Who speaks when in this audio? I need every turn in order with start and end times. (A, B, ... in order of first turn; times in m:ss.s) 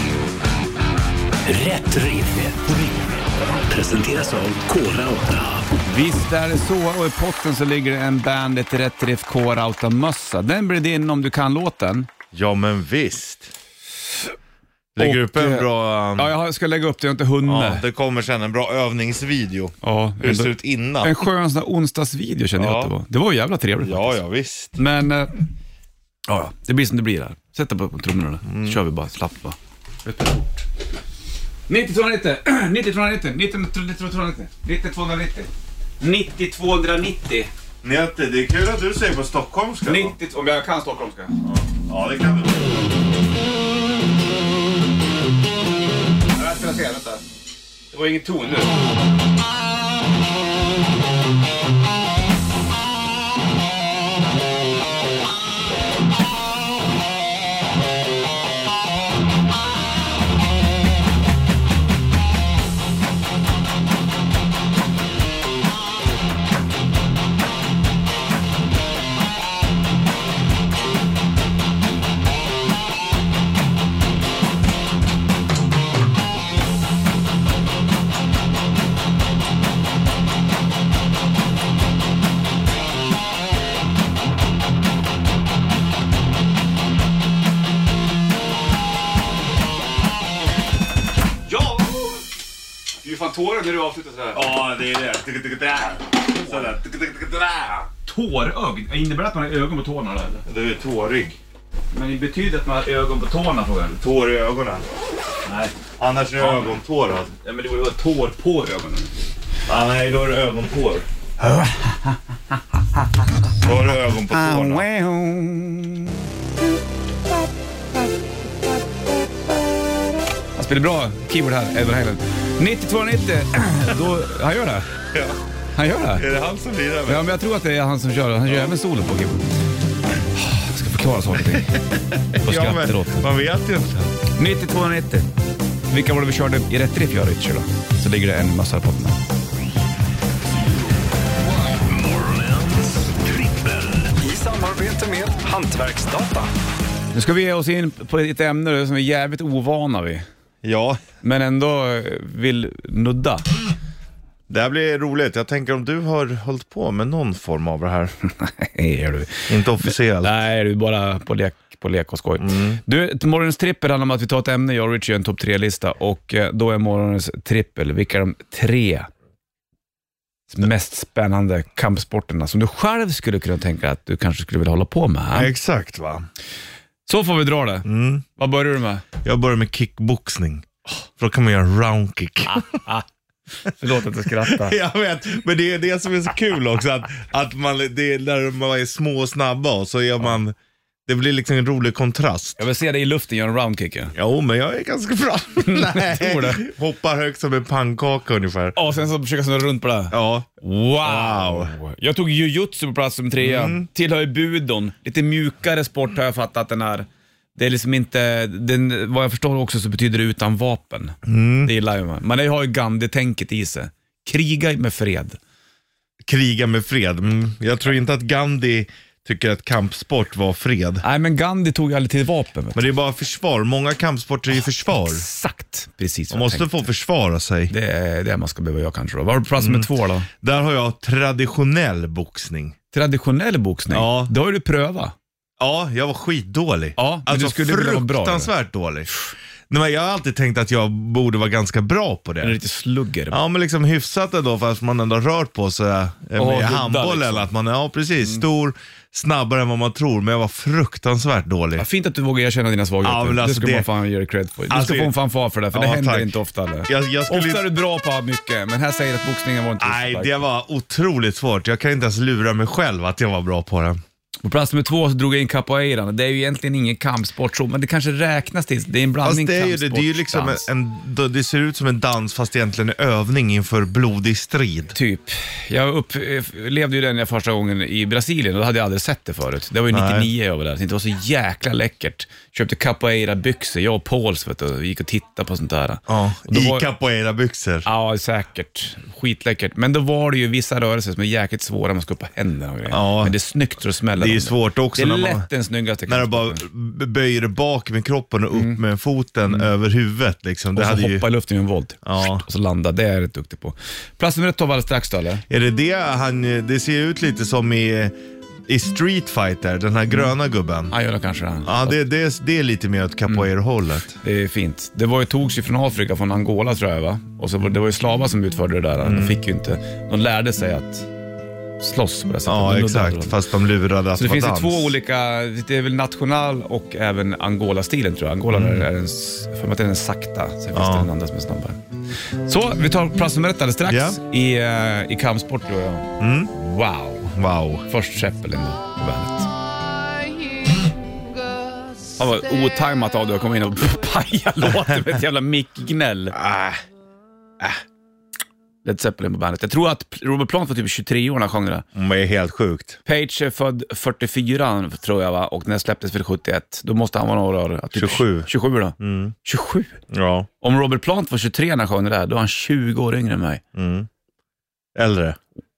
0:01.5-0:03.0 A
0:03.7-0:05.6 A
0:05.8-0:12.1 B
0:12.3-0:13.5 C
0:15.0-0:16.3 C
0:15.0-0:17.8 B
0:17.4-0:21.2 C
0:19.8-0:24.2 B
0:22.6-0:22.9 C
0:23.8-0:24.8 C
0:24.8-0:25.4 B
0:26.2-0:30.6 B
0:28.4-0:28.8 C
0:31.7-0:37.5 B
0:37.8-0:40.1 C
0:39.8-0:41.3 B
0:41.4-0:42.8 C
0:46.3-0:47.2 B
0:47.9-0:48.7 B
1:31.5-1:32.2 B
1:33.0-1:34.5 B
1:34.3-1:37.9 C
1:36.4-1:36.6 B
1:38.0-1:40.4 B
1:40.5-1:41.4 C
1:41.9-1:44.0 B
1:44.0-1:44.8 C
1:45.4-1:45.7 B
1:46.0-1:47.3 C
1:46.4-1:46.7 B
1:47.4-1:49.1 B
1:49.7-1:51.0 C
1:51.4-1:52.2 B
1:53.6-1:54.8 C
1:54.3-1:56.2 B
2:00.6-2:04.9 B
2:05.1-2:05.4 C
2:05.7-2:06.2 B
2:06.1-2:07.2 C
2:07.0-2:09.4 B
2:10.4-2:11.7 B
2:11.3-2:14.1 C
2:12.4-2:13.2 B
2:14.4-2:15.3 B
2:15.9-2:19.2 B
2:21.7-2:24.1 A
2:24.2-2:26.5 B
2:27.1-2:30.2 B
2:30.6-2:31.0 C
2:31.2-2:33.4 B
2:34.5-2:38.1 C
2:38.4-2:49.1 B
2:39.5-2:40.4 C
2:42.4-2:42.8 C
2:50.5-2:55.5 B
2:55.3-2:56.2 C
2:57.0-2:59.0 B
2:57.8-2:58.2 C
2:59.2-3:02.8 C
3:02.4-3:03.0 B
3:03.6-3:04.8 B
3:04.4-3:10.5 C
3:11.1-3:12.6 C
3:12.6-3:14.1 B
3:14.1-3:18.8 C
3:15.6-3:16.6 B
3:18.7-3:35.4 B
3:20.1-3:20.5 C
3:21.0-3:21.7 C
3:23.4-3:23.8 C
3:31.2-3:31.7 C
3:36.2-3:41.0 C
3:41.0-3:42.8 B
3:42.7-3:45.2 C
3:44.9-3:46.8 B
3:46.3-3:47.7 C
3:47.7-3:50.3 B
3:49.6-3:52.8 C
3:52.9-3:55.1 B
3:53.9-3:54.3 C
3:55.6-3:59.1 C
3:57.0-3:58.5 B
3:59.7-4:02.6 C
4:02.4-4:03.4 B
4:03.3-4:11.8 C
4:06.4-4:07.5 B
4:11.8-4:20.4 B
4:13.0-4:13.9 C
4:14.7-4:15.1 C
4:15.7-4:16.3 C
4:16.9-4:17.6 C
4:19.8-4:24.0 C
4:24.4-4:30.6 B
4:29.2-4:34.9 C
4:34.9-4:46.8 B
4:39.9-4:40.3 C
4:46.1-4:47.9 C
4:47.8-4:56.6 B
4:52.9-4:53.3 C
4:54.2-4:55.5 C
4:56.1-5:01.2 C
4:58.5-4:58.8 B
5:00.7-5:05.4 B
5:02.0-5:02.4 C
5:05.5-5:08.1 C
5:08.7-5:10.9 C
5:10.9-5:12.0 B
5:11.6-5:14.2 C
5:14.2-5:21.1 B
5:19.0-5:19.4 C
5:21.8-5:23.4 B
5:22.4-5:24.9 C
5:24.2-5:31.8 B
5:28.5-5:28.8 C
5:30.7-5:31.1 C
5:32.4-5:37.3 B
5:33.9-5:34.2 C
5:36.2-5:36.5 C
5:37.3-5:37.9 C
5:37.9-5:39.5 B
5:42.2-5:46.4 B
5:46.3-5:46.8 C
5:48.8-5:51.8 B
5:51.9-5:53.0 C
5:53.0-6:00.0 B
5:57.9-5:58.5 C
5:59.0-5:59.3 C
6:00.1-6:00.5 C
6:00.6-6:03.6 B
6:03.7-6:04.1 C
6:05.0-6:05.4 C